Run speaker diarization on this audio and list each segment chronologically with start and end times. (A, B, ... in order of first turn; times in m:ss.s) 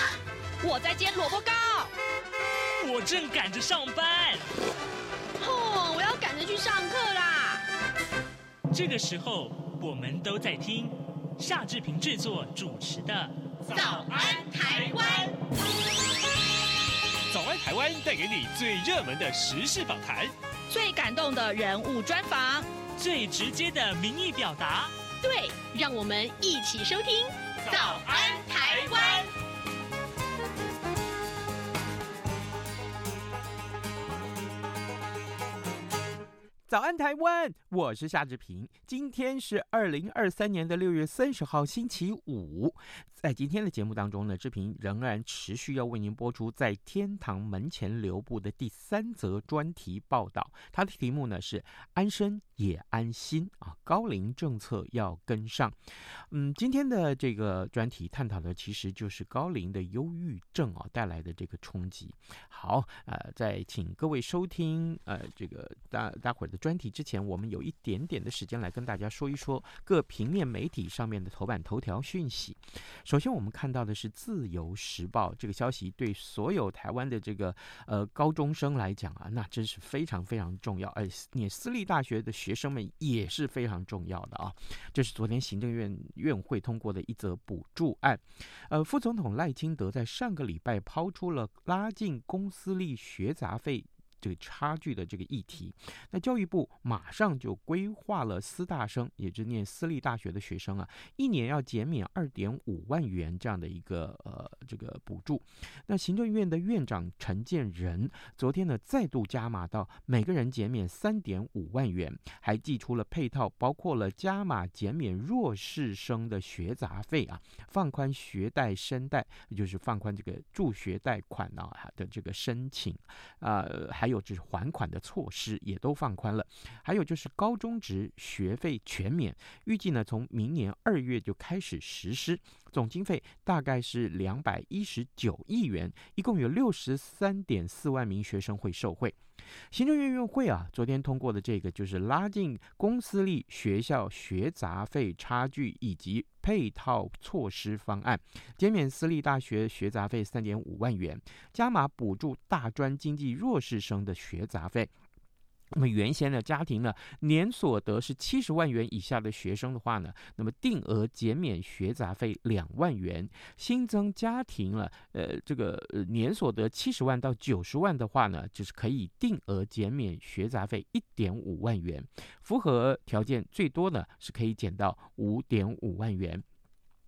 0:00.6-0:01.9 A
0:02.8-0:04.4 B
0:05.4-0:07.6 A
0:08.7-0:13.2 B
0:13.7-0:15.3 A
0:17.3-0:20.3 B
0:20.7-0:22.7 A
0:23.0-0:24.9 B
0:25.2-0:29.3 A
0:36.7-2:19.2 C
2:19.7-2:34.9 C
2:35.7-2:56.4 C